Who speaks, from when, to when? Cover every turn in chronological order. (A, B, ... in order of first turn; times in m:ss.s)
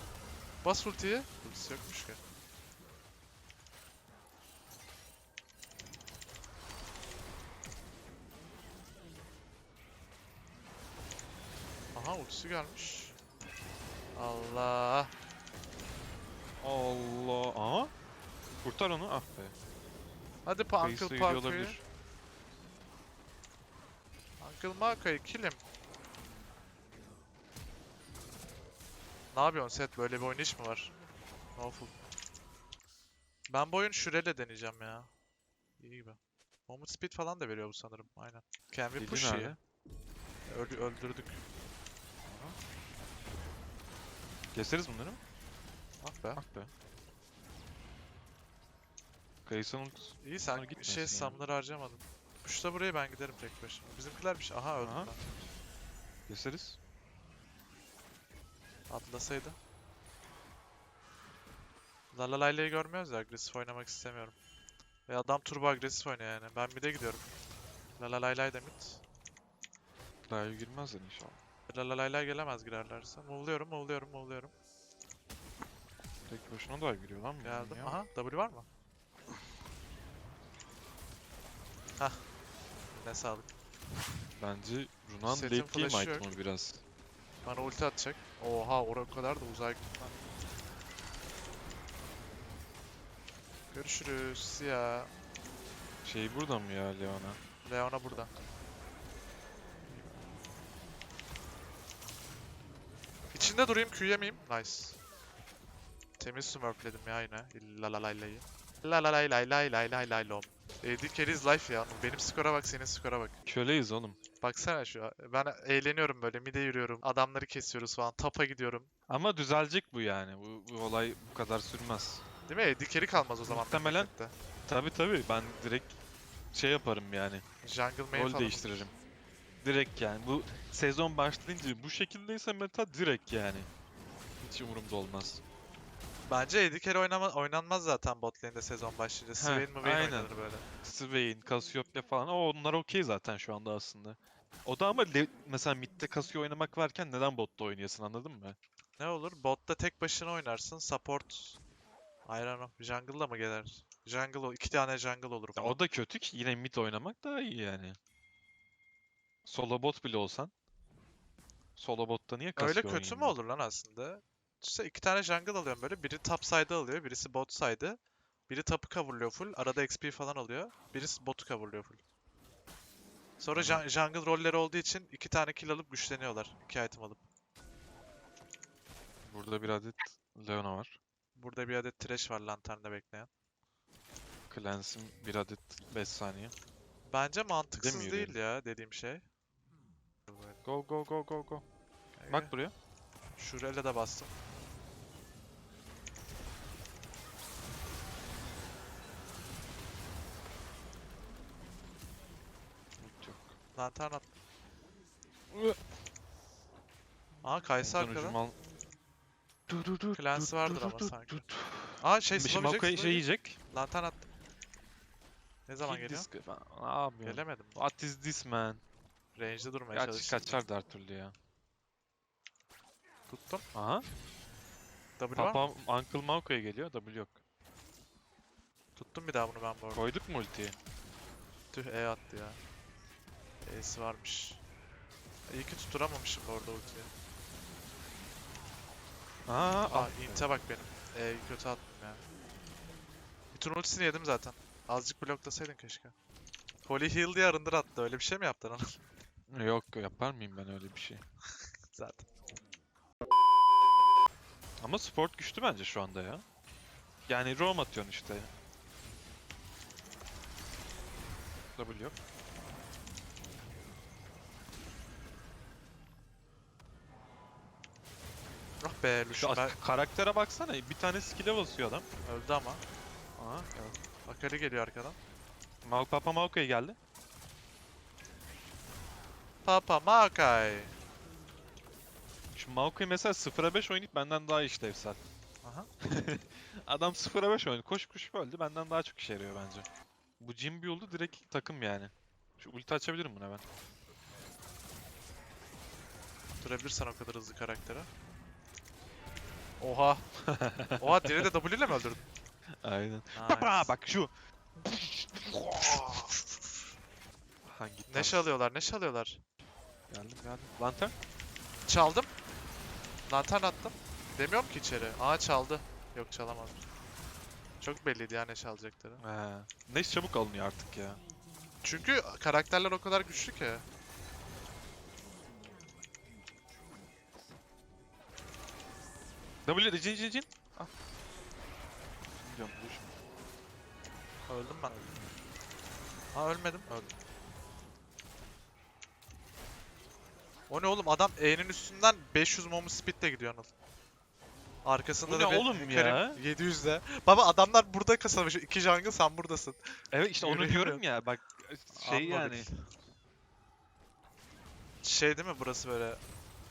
0:00.6-0:02.2 A
0:11.9-0:13.1 A
0:14.1-0:15.1 A
0:16.6-0:17.9 B
0:18.6-0:19.5 B
0:20.4-0:21.8 A
0:20.8-0:21.8 B
0:24.4-0:25.6 A
0:29.3-0:30.9 A
0:31.5-0:32.0 A
0:33.5-0:35.1 A
0:35.8-0:39.6 A
0:39.0-0:39.6 B
0:40.5-0:41.4 A
0:42.2-0:42.6 B
0:44.5-0:45.2 B
0:46.0-0:46.4 A
0:46.3-0:46.7 B
0:49.4-0:51.4 B
0:50.2-0:55.2 A
0:54.8-0:55.1 B
0:56.3-0:56.8 B
0:58.9-0:59.6 A
1:02.1-1:04.4 A
1:05.1-1:07.2 A
1:08.0-1:09.0 A
1:10.3-1:11.4 B
1:11.7-1:14.5 A
1:16.3-1:18.0 B
1:17.4-1:18.7 A
1:22.0-1:22.2 A
1:22.9-1:23.5 A
1:24.4-1:26.8 B
1:25.2-1:26.3 A
1:27.4-1:30.1 A
1:33.7-1:35.1 A
1:36.0-1:37.4 B
1:37.6-1:38.3 A
1:43.3-1:45.0 A
1:46.2-1:53.4 A
1:53.4-1:54.2 B
1:54.4-1:58.9 A
1:59.1-2:02.2 B
2:02.5-2:04.3 A
2:03.4-2:04.1 B
2:04.6-2:06.0 B
2:06.5-2:07.4 B
2:07.6-2:08.9 A
2:08.1-2:08.9 B
2:09.6-2:13.7 B
2:14.4-2:15.4 B
2:16.2-2:20.6 A
2:19.4-2:20.3 B
2:20.8-2:28.6 B
2:29.0-2:31.6 A
2:32.2-2:35.8 A
2:35.6-2:38.0 B
2:39.4-2:40.5 B
2:41.8-2:43.4 B
2:42.6-2:52.0 A
2:53.4-2:57.2 A
2:53.5-2:53.8 B
2:59.2-3:01.0 B
3:01.3-3:03.3 A
3:04.5-3:06.5 B
3:07.0-3:09.2 A
3:07.8-3:08.4 B
3:10.3-3:10.6 A
3:10.6-3:11.6 B
3:12.2-3:12.5 A
3:12.3-3:12.7 B
3:13.4-3:14.3 A
3:23.0-3:23.6 B
3:23.7-3:24.3 A
3:25.5-3:25.8 B
3:27.4-3:28.4 A
3:27.8-3:28.6 B
3:29.7-3:33.6 B
3:30.1-3:31.4 A
3:32.0-3:34.3 A
3:35.7-3:36.3 A
3:35.8-3:38.8 B
3:37.2-3:37.8 A
3:39.3-3:40.5 A
3:39.9-3:41.3 B
3:43.3-3:43.6 A
3:43.7-3:44.1 B
3:45.2-3:45.7 A
3:45.4-3:47.4 B
3:49.0-3:50.0 A
3:49.9-3:50.8 B
3:51.7-3:52.6 A
3:53.6-3:54.6 A
3:55.5-3:57.1 A
3:59.4-4:00.4 B
3:59.9-4:02.2 A
4:03.5-4:06.1 A
4:06.8-4:09.0 A
4:09.5-4:11.2 B
4:11.9-4:12.3 A
4:14.8-4:16.4 B
4:17.3-4:18.5 B
4:21.8-4:22.1 B
4:28.8-4:29.8 A
4:29.3-4:32.0 B
4:32.2-4:32.8 A
4:33.4-4:33.9 B
4:34.2-4:35.2 A
4:35.8-4:37.0 B
4:39.6-4:40.9 A
4:42.5-4:45.2 B
4:45.6-4:45.9 A
4:46.0-4:49.8 B
4:50.4-4:53.6 B
4:56.6-4:58.1 A
4:59.8-5:00.2 A
5:00.4-5:01.5 B
5:01.0-5:02.2 A
5:02.8-5:06.4 B
5:03.3-5:03.9 A
5:05.8-5:06.4 A
5:07.6-5:08.5 B
5:08.1-5:09.4 A
5:10.1-5:11.1 B
5:11.8-5:12.3 A
5:13.3-5:16.8 A
5:17.8-5:19.2 A
5:19.2-5:21.2 B
5:21.8-5:23.8 A
5:29.6-5:30.5 B
5:32.4-5:33.1 B
5:34.5-5:35.0 A
5:34.9-5:35.3 B
5:36.3-5:36.9 A
5:40.7-5:43.7 A
5:44.8-5:49.8 A
5:45.2-5:46.4 B
5:50.1-5:52.7 B
5:50.4-5:51.0 A
5:51.9-5:52.9 A
5:55.0-5:56.2 A